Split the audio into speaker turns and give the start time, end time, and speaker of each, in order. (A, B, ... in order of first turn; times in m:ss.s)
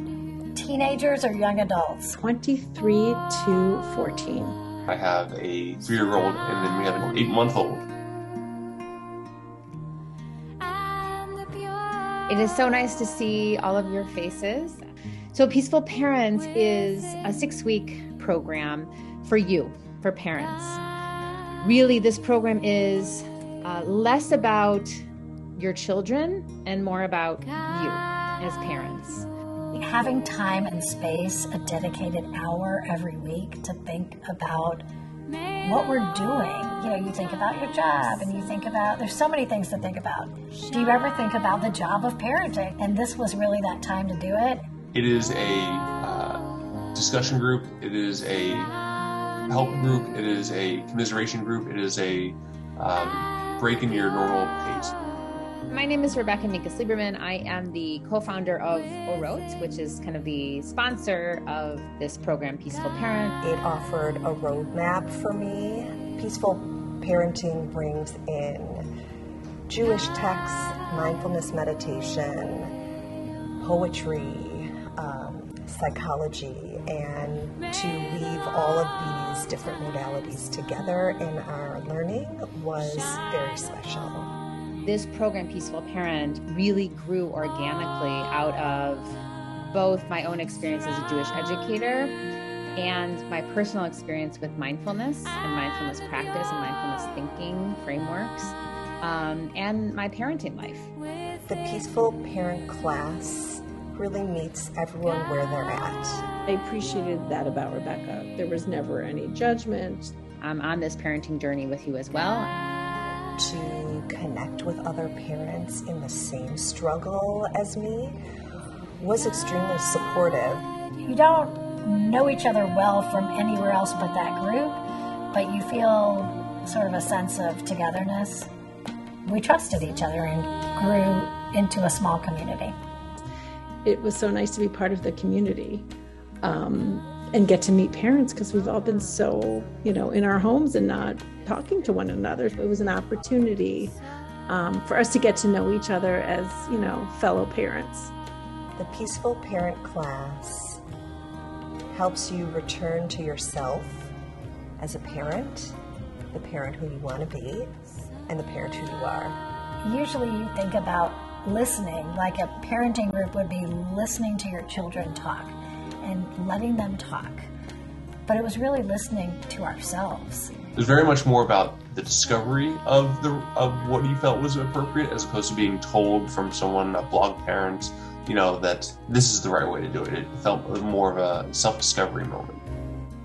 0:00.5-0:02.2 A
0:02.2-0:04.6 B
0:04.9-0:07.9 C
0:12.3-0:20.8 D
0:21.6-0:25.0 D
0:25.5-0:29.3 D
0:29.7-0:34.8 A
0:35.6-0:44.6 A
0:44.9-0:46.4 C
0:46.9-0:48.7 C
0:49.5-0:54.9 C
0:55.7-1:03.3 D
1:03.4-1:08.9 E
1:09.7-1:12.7 E
1:13.6-1:24.3 E
1:24.8-1:32.2 D
1:32.8-1:40.9 D
1:41.4-1:46.2 E
1:46.4-1:50.1 B
1:50.4-1:52.5 D
1:53.4-1:58.2 E
1:59.0-2:00.6 E
2:01.0-2:04.8 A
2:05.3-2:08.5 A
2:09.2-2:12.7 A
2:13.8-2:15.8 B
2:16.4-2:28.1 B
2:28.8-2:30.8 E
2:31.9-2:34.1 E
2:34.8-2:35.8 E
2:36.3-2:37.8 E
2:38.3-2:39.4 E
2:39.8-2:47.4 A
2:48.2-2:50.5 A
2:50.7-3:02.6 C